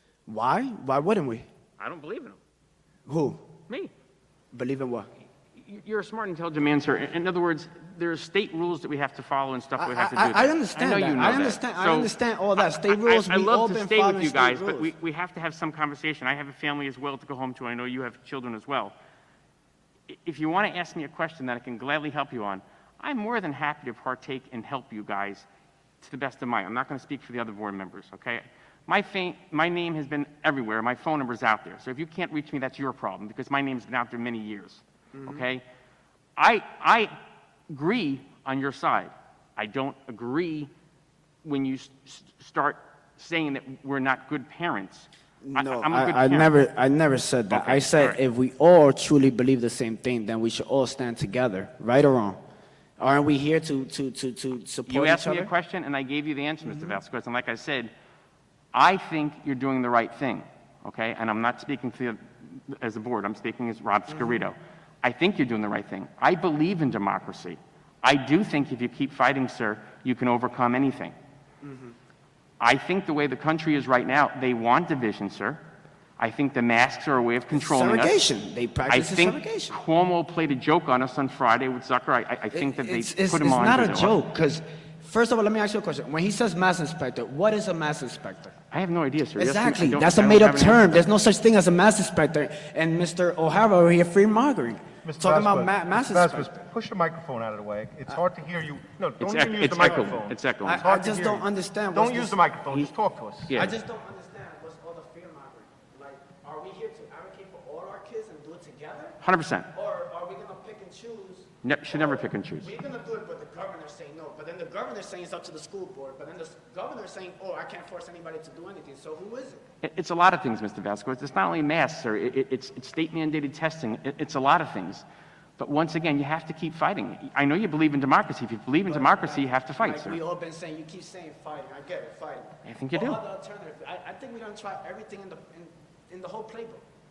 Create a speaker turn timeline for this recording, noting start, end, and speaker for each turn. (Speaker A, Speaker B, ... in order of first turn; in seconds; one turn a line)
Speaker A: 0.3-1.5
Speaker B: 1.8-2.4
Speaker A: 3.0-3.4
Speaker A: 4.5-5.1
Speaker B: 5.5-18.9
Speaker A: 9.8-14.9
Speaker B: 20.1-25.4
Speaker B: 26.0-35.6
Speaker A: 35.1-35.4
Speaker B: 36.4-37.2
Speaker B: 37.7-40.7
Speaker B: 41.4-46.5
Speaker A: 45.4-52.4
Speaker B: 47.5-48.2
Speaker A: 53.0-55.5
Speaker B: 54.9-57.9
Speaker A: 56.6-57.0
Speaker B: 58.7-71.1
Speaker A: 64.1-64.4
Speaker A: 71.6-72.0
Speaker B: 72.6-75.6
Speaker B: 76.2-78.2
Speaker A: 77.5-79.8
Speaker B: 78.9-84.2
Speaker A: 82.5-88.5
Speaker B: 88.7-91.0
Speaker A: 89.4-96.6
Speaker C: 95.0-103.7
Speaker B: 99.2-100.8
Speaker A: 100.6-102.9
Speaker B: 103.5-103.8
Speaker A: 103.5-109.2
Speaker B: 109.2-109.7
Speaker A: 109.7-119.6
Speaker B: 111.6-112.7
Speaker B: 119.8-125.0
Speaker B: 125.6-130.2
Speaker A: 128.8-136.8
Speaker B: 132.6-133.2